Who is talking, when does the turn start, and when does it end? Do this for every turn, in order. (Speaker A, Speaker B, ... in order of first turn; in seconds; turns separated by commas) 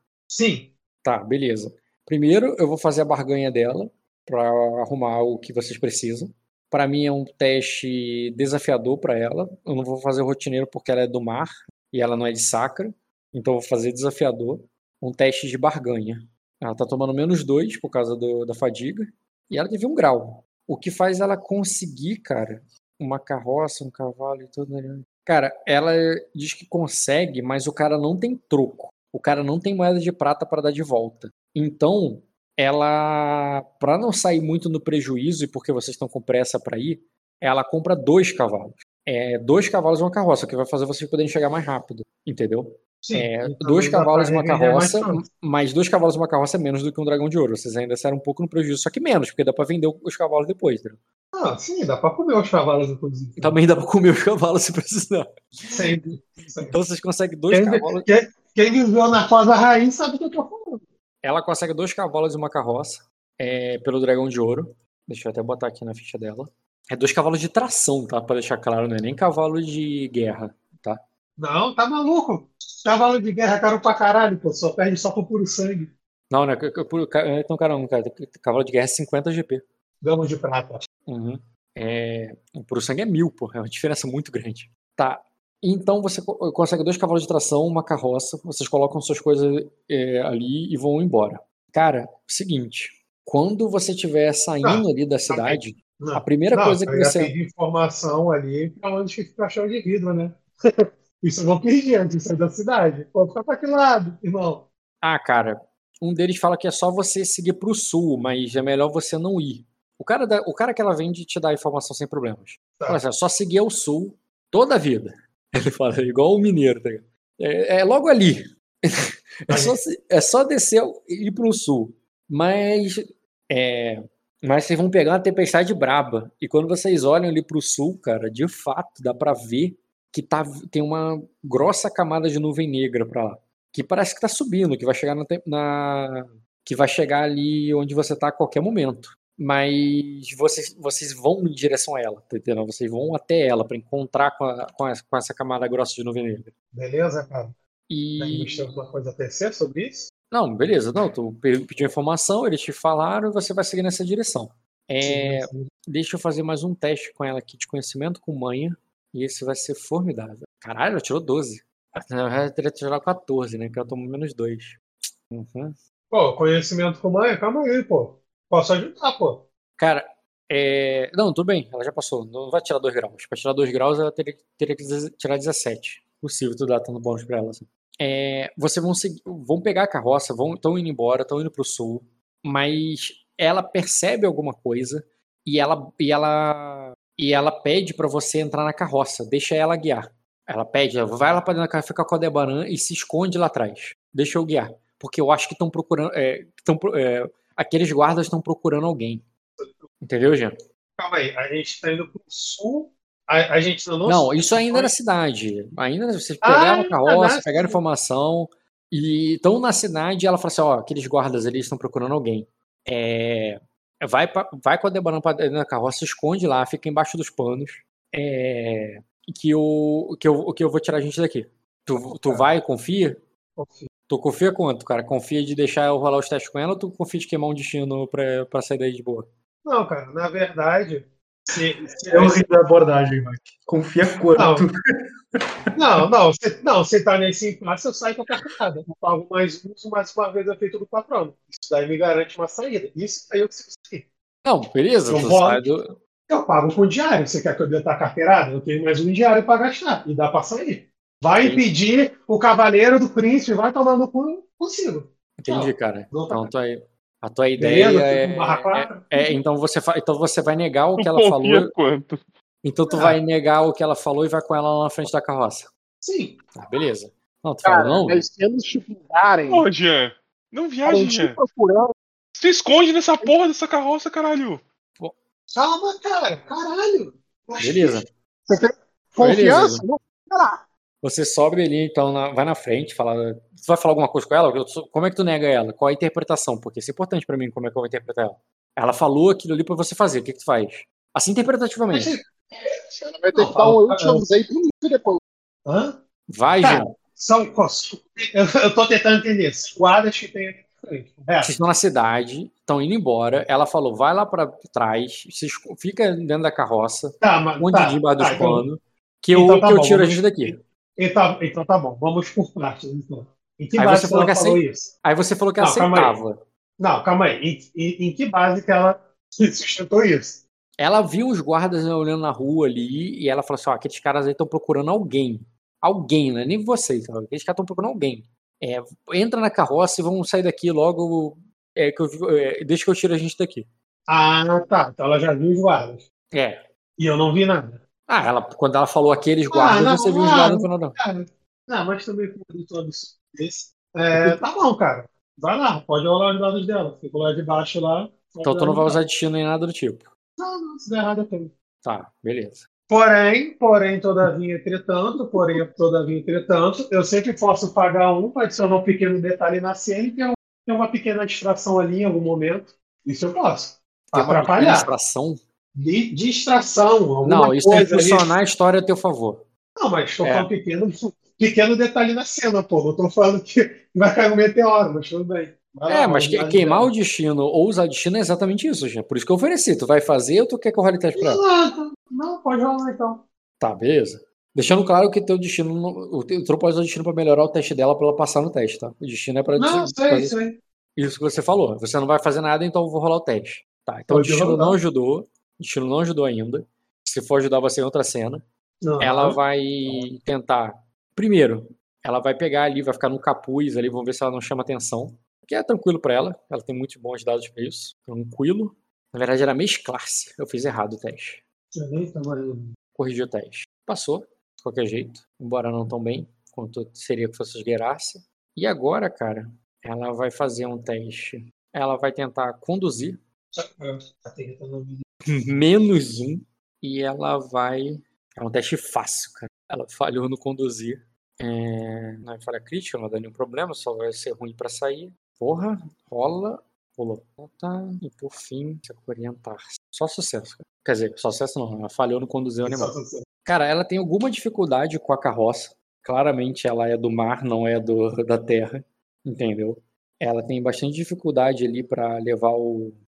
Speaker A: 0.3-0.7, Speaker B: 1.0-51.0, Speaker A: 43.0-45.2, Speaker A: 51.3-53.6, Speaker B: 53.4-55.8, Speaker A: 55.7-56.7, Speaker B: 56.7-58.1, Speaker A: 57.5-60.8, Speaker B: 61.2-71.0, Speaker A: 71.4-75.9, Speaker B: 76.3-79.6, Speaker A: 80.0-80.8, Speaker B: 81.1-97.3, Speaker A: 94.6-100.4, Speaker A: 101.2-104.7, Speaker B: 105.0-146.5, Speaker A: 119.5-119.8, Speaker A: 146.7-147.6, Speaker B: 147.9-148.7, Speaker A: 148.2-150.1, Speaker B: 150.3-165.8, Speaker A: 155.0-155.7, Speaker A: 166.1-169.4, Speaker B: 169.8-199.2, Speaker A: 199.6-199.9, Speaker B: 200.0-200.6, Speaker A: 201.0-204.9, Speaker B: 204.1-223.2, Speaker A: 206.4-207.8, Speaker A: 222.1-222.5, Speaker A: 223.6-223.9, Speaker B: 224.1-229.3, Speaker A: 229.7-232.5, Speaker C: 232.1-234.8, Speaker A: 234.3-234.7, Speaker A: 235.8-244.1, Speaker B: 244.4-246.0, Speaker A: 245.1-245.7, Speaker A: 246.3-256.5, Speaker B: 251.4-251.7, Speaker B: 255.4-261.7, Speaker A: 257.6-259.4, Speaker D: 261.0-262.2, Speaker B: 262.6-265.7, Speaker A: 262.9-263.2, Speaker A: 266.0-266.4, Speaker B: 266.6-268.3, Speaker E: 267.6-269.7, Speaker D: 269.5-271.4, Speaker E: 270.9-271.9, Speaker D: 272.4-274.6, Speaker A: 275.6-279.7, Speaker B: 277.6-278.1, Speaker B: 279.2-279.9, Speaker B: 281.0-292.2, Speaker A: 291.9-292.3, Speaker E: 292.9-295.2, Speaker A: 293.3-294.2, Speaker A: 295.7-296.0, Speaker B: 296.3-296.9, Speaker A: 296.6-301.5, Speaker B: 301.4-310.6, Speaker A: 307.2-308.6, Speaker A: 309.3-314.9, Speaker B: 313.8-316.4, Speaker A: 315.6-316.2, Speaker A: 316.8-320.4, Speaker B: 320.8-333.7, Speaker A: 334.1-336.0, Speaker B: 336.3-336.6, Speaker A: 337.0-337.8, Speaker B: 338.1-341.0, Speaker A: 339.5-349.0, Speaker B: 348.4-350.1, Speaker A: 350.4-351.5, Speaker B: 351.8-352.6, Speaker A: 352.9-364.9, Speaker B: 364.1-365.4, Speaker A: 365.8-368.3, Speaker B: 367.2-369.4, Speaker A: 369.8-376.9, Speaker B: 370.2-370.5, Speaker B: 375.9-381.4, Speaker A: 381.2-383.2, Speaker B: 383.6-390.4, Speaker A: 389.6-390.6, Speaker B: 391.0-398.4, Speaker A: 394.1-394.8, Speaker A: 398.8-400.1, Speaker B: 399.0-411.4, Speaker A: 411.8-412.7, Speaker B: 413.0-423.2, Speaker A: 423.6-425.0, Speaker B: 425.3-442.9, Speaker A: 442.6-443.2, Speaker B: 443.5-453.0